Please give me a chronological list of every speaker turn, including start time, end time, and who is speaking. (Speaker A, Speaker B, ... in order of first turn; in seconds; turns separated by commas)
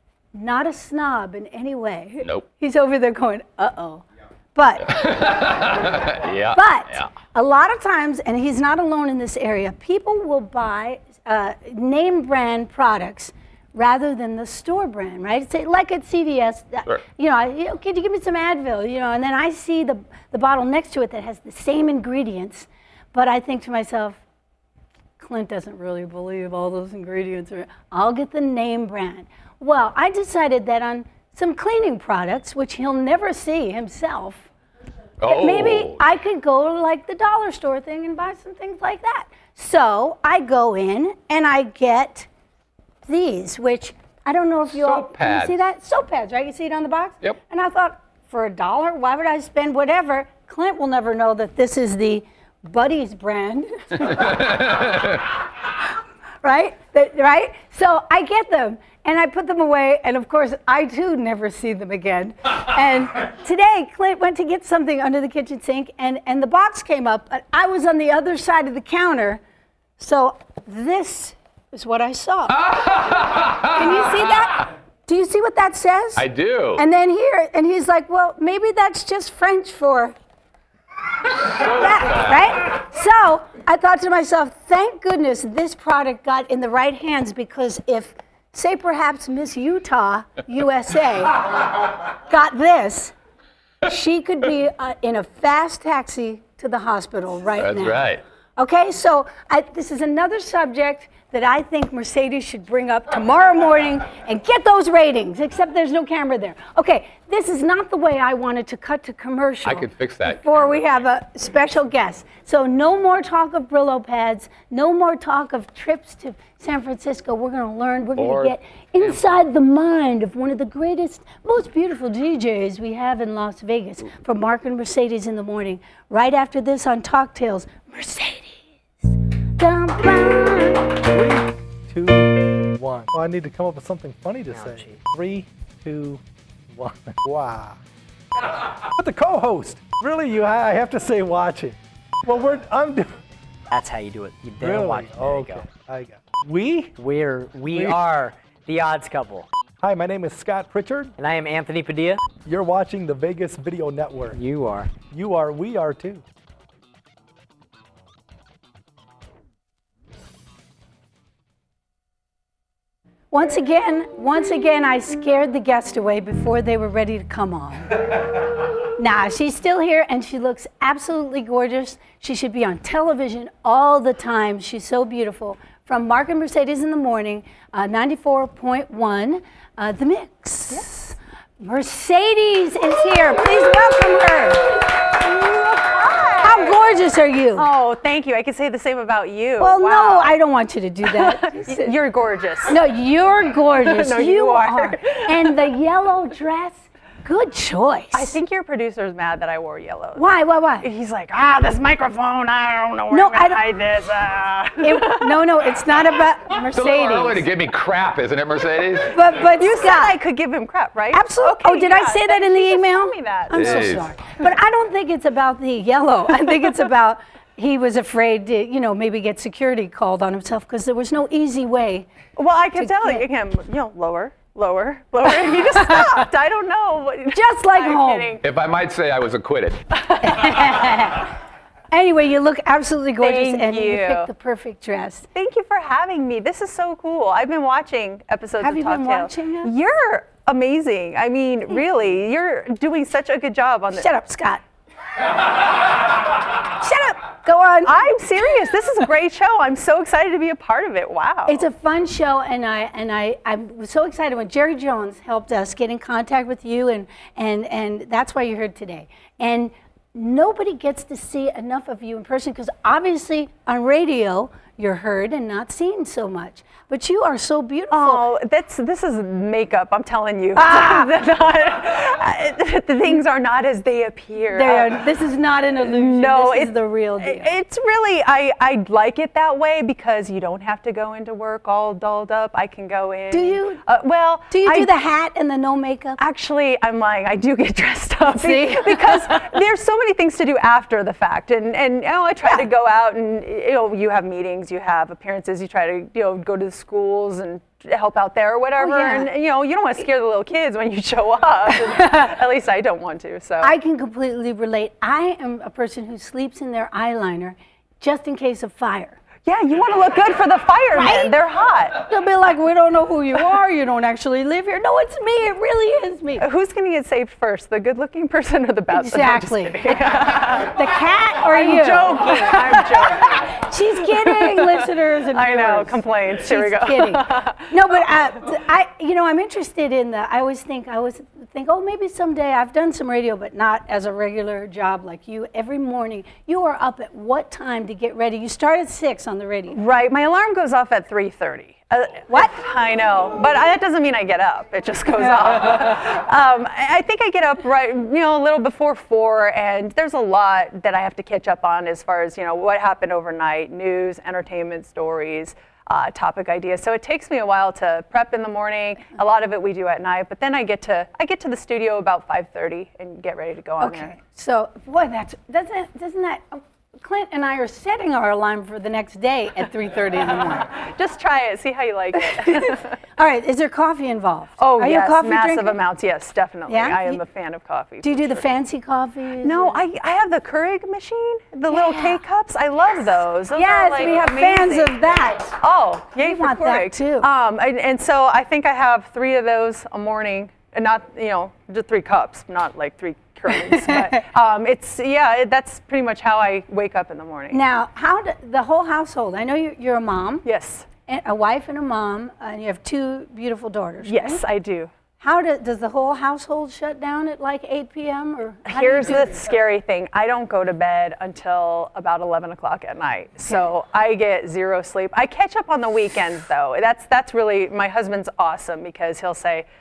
Speaker A: 0.3-4.0, Speaker A: 4.5-4.9, Speaker B: 4.9-7.1, Speaker A: 6.5-24.2, Speaker A: 25.2-34.5, Speaker B: 35.2-36.0, Speaker A: 35.3-42.3, Speaker A: 43.1-54.5, Speaker B: 44.7-45.6, Speaker B: 54.1-55.3, Speaker A: 56.4-69.4, Speaker A: 70.0-72.7, Speaker B: 72.5-74.2, Speaker A: 73.7-80.1, Speaker B: 76.2-76.8, Speaker A: 81.6-91.5, Speaker B: 81.6-82.5, Speaker A: 92.3-93.1, Speaker A: 93.8-130.9, Speaker B: 97.6-98.2, Speaker B: 109.7-110.7, Speaker B: 118.2-118.5, Speaker C: 131.1-137.8, Speaker D: 134.5-135.0, Speaker C: 138.9-143.2, Speaker D: 143.7-145.7, Speaker C: 144.6-147.0, Speaker D: 147.0-149.5, Speaker C: 147.7-148.0, Speaker C: 149.8-151.1, Speaker D: 151.2-152.2, Speaker C: 152.4-154.4, Speaker D: 154.3-155.0, Speaker C: 155.0-156.2, Speaker A: 163.3-168.1, Speaker A: 168.8-184.8, Speaker E: 185.4-186.8, Speaker A: 186.4-187.7, Speaker E: 187.6-190.4, Speaker A: 189.6-191.9, Speaker E: 191.0-192.8, Speaker A: 192.7-198.3, Speaker E: 193.8-195.6, Speaker E: 198.1-200.3, Speaker A: 200.2-200.9, Speaker E: 200.8-205.5, Speaker A: 203.1-203.6, Speaker A: 204.8-207.5, Speaker B: 206.7-209.3, Speaker A: 209.1-210.2, Speaker E: 209.6-214.0, Speaker A: 211.1-222.1, Speaker B: 213.5-214.1, Speaker E: 222.4-228.4, Speaker A: 222.8-223.2, Speaker A: 227.3-228.4, Speaker B: 228.4-229.8, Speaker A: 230.2-231.3, Speaker A: 231.9-235.3, Speaker E: 233.2-234.3, Speaker E: 235.3-244.1, Speaker A: 238.6-239.7, Speaker A: 243.9-244.6, Speaker A: 246.7-248.1, Speaker E: 247.8-251.7, Speaker A: 251.5-268.2, Speaker E: 267.9-275.1, Speaker A: 270.6-271.1, Speaker A: 274.5-277.5, Speaker E: 275.8-284.9, Speaker A: 283.3-283.8, Speaker A: 284.5-286.2, Speaker E: 286.2-303.7, Speaker A: 288.3-289.4, Speaker A: 298.8-299.3, Speaker A: 301.9-302.3, Speaker A: 303.6-309.2, Speaker E: 309.4-312.0, Speaker A: 311.0-311.4, Speaker A: 311.9-316.4, Speaker E: 316.4-320.8, Speaker A: 318.9-339.8, Speaker E: 321.5-323.5, Speaker E: 324.1-328.0, Speaker E: 339.7-364.1, Speaker A: 342.3-342.6, Speaker A: 363.8-370.7, Speaker E: 370.8-372.9, Speaker A: 372.2-375.8, Speaker E: 374.6-378.5, Speaker A: 376.7-377.2, Speaker A: 378.0-379.8, Speaker E: 379.4-385.1, Speaker A: 381.7-382.2, Speaker A: 383.5-385.6, Speaker E: 385.6-397.6, Speaker A: 386.2-387.3, Speaker A: 393.7-394.2, Speaker A: 397.5-400.5, Speaker E: 400.4-400.9, Speaker A: 401.1-404.4, Speaker E: 404.0-404.9, Speaker A: 405.2-409.5, Speaker E: 408.7-419.6